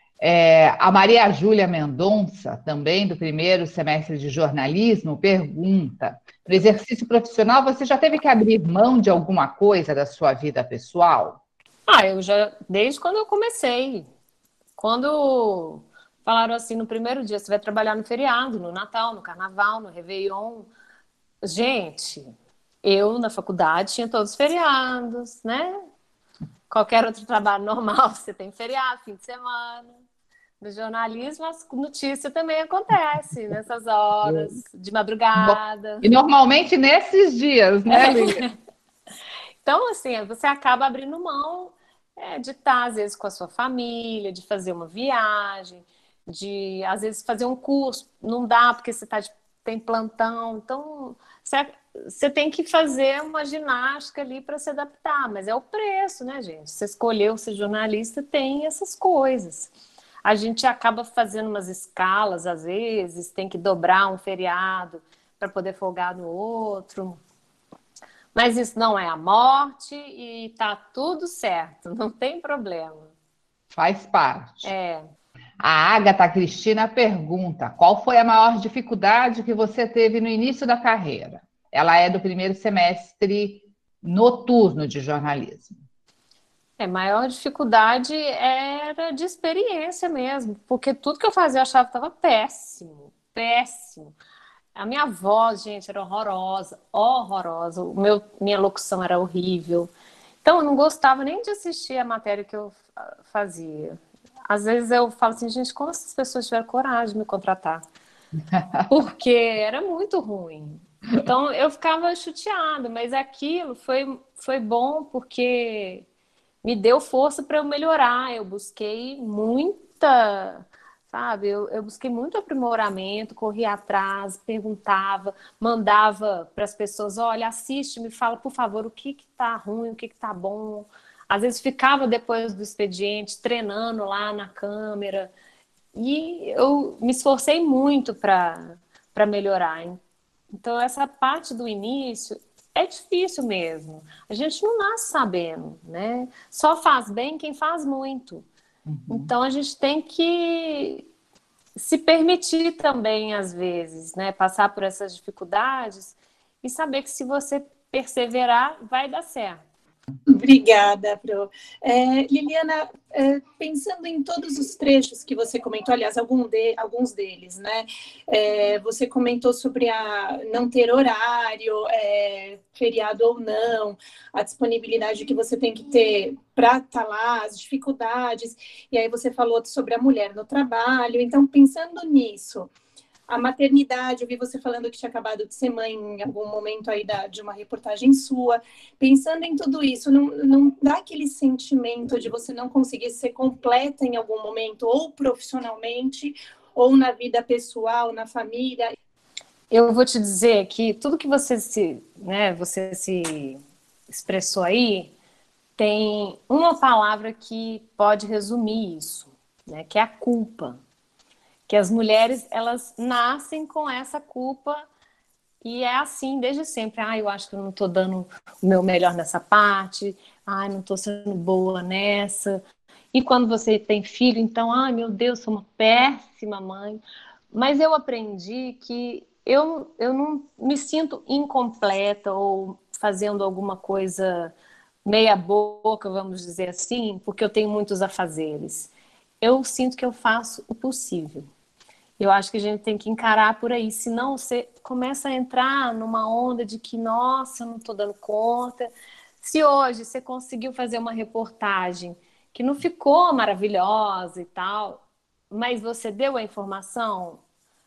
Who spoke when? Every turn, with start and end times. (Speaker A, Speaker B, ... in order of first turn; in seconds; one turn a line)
Speaker A: 0.2-11.4
Speaker B: 11.9-14.1
Speaker B: 14.8-20.7
Speaker B: 21.4-25.8
Speaker B: 26.7-30.0
Speaker B: 30.6-36.1
Speaker A: 34.2-34.5
Speaker A: 35.4-38.4
Speaker B: 37.9-38.5
Speaker B: 39.6-59.7
Speaker B: 60.2-67.2
Speaker B: 68.3-73.1
Speaker A: 73.7-74.7
Speaker B: 74.6-75.1
Speaker A: 75.6-85.8
Speaker B: 86.8-94.2
Speaker B: 94.8-99.9
Speaker B: 100.4-104.0
Speaker B: 104.5-107.8
Speaker A: 108.5-108.8
Speaker B: 108.9-116.0
Speaker B: 116.6-135.3
Speaker B: 135.9-140.0
Speaker B: 140.6-148.5
Speaker A: 148.9-149.3
Speaker B: 149.1-151.1
Speaker B: 151.8-159.6
Speaker C: 160.3-182.7
Speaker C: 183.3-198.9
Speaker B: 199.7-205.1
Speaker B: 205.8-210.8
Speaker B: 211.7-214.8
Speaker B: 215.6-222.6
Speaker B: 223.1-227.0
Speaker B: 227.5-234.5
Speaker B: 235.1-241.5
Speaker B: 242.2-257.4